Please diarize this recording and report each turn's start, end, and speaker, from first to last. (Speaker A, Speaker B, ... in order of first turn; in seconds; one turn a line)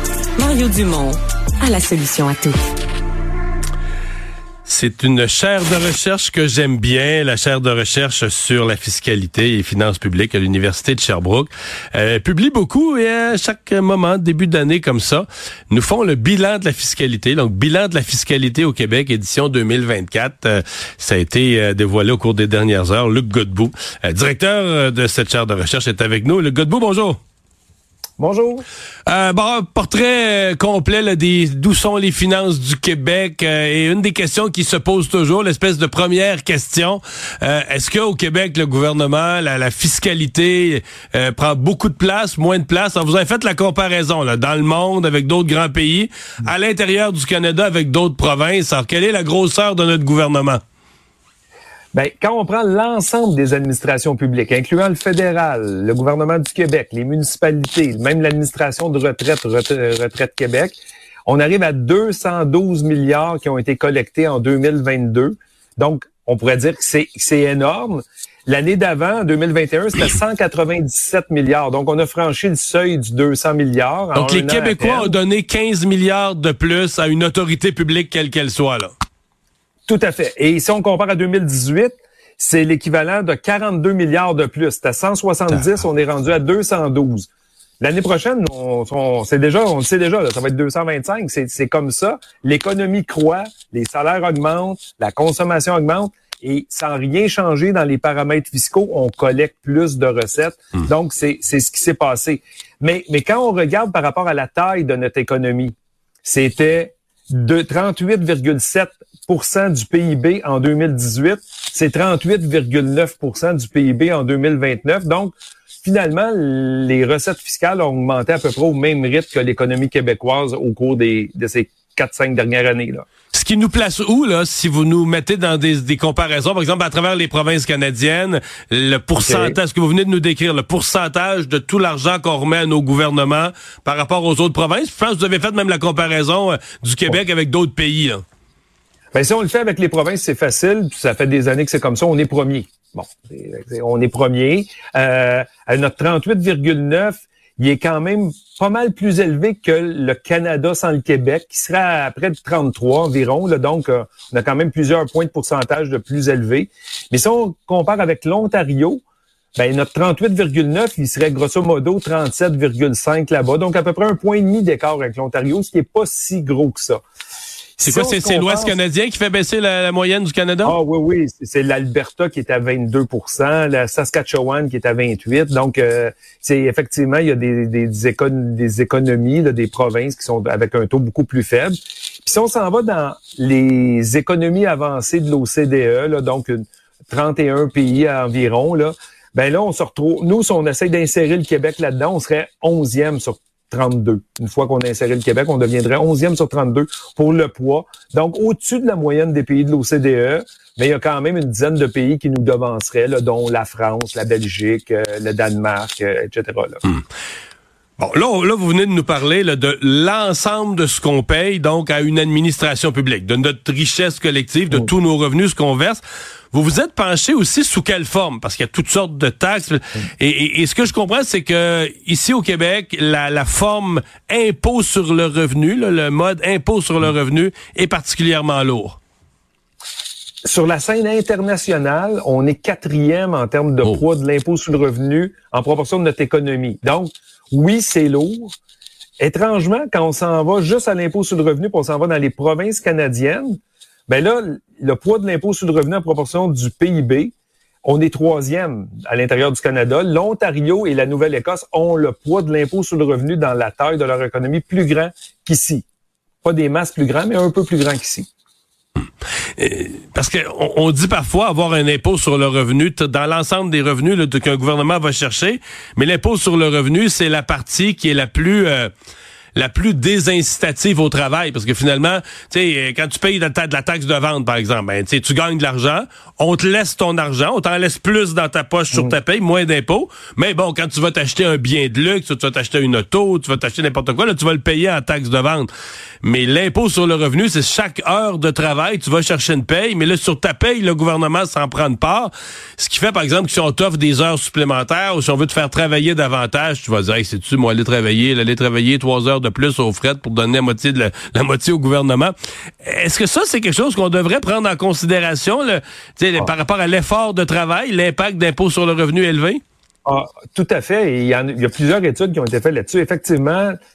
Speaker A: 0.4-2.6
Speaker B: 4.6-27.2
Speaker C: 28.2-28.6
Speaker B: 29.1-50.6
Speaker C: 51.9-75.1
Speaker B: 74.1-78.9
Speaker C: 79.9-87.3
Speaker C: 87.8-123.1
Speaker B: 123.3-138.2
Speaker C: 129.2-129.6
Speaker C: 139.1-159.0
Speaker C: 159.6-167.0
Speaker C: 167.8-168.8
Speaker B: 167.8-170.8
Speaker C: 170.6-206.9
Speaker B: 208.0-216.0
Speaker B: 216.5-229.0
Speaker C: 230.4-238.5
Speaker C: 239.2-243.6
Speaker C: 244.1-247.3
Speaker C: 247.8-255.8
Speaker C: 256.4-258.3
Speaker B: 259.6-268.9
Speaker B: 269.5-285.7
Speaker B: 286.2-309.6
Speaker C: 310.0-313.8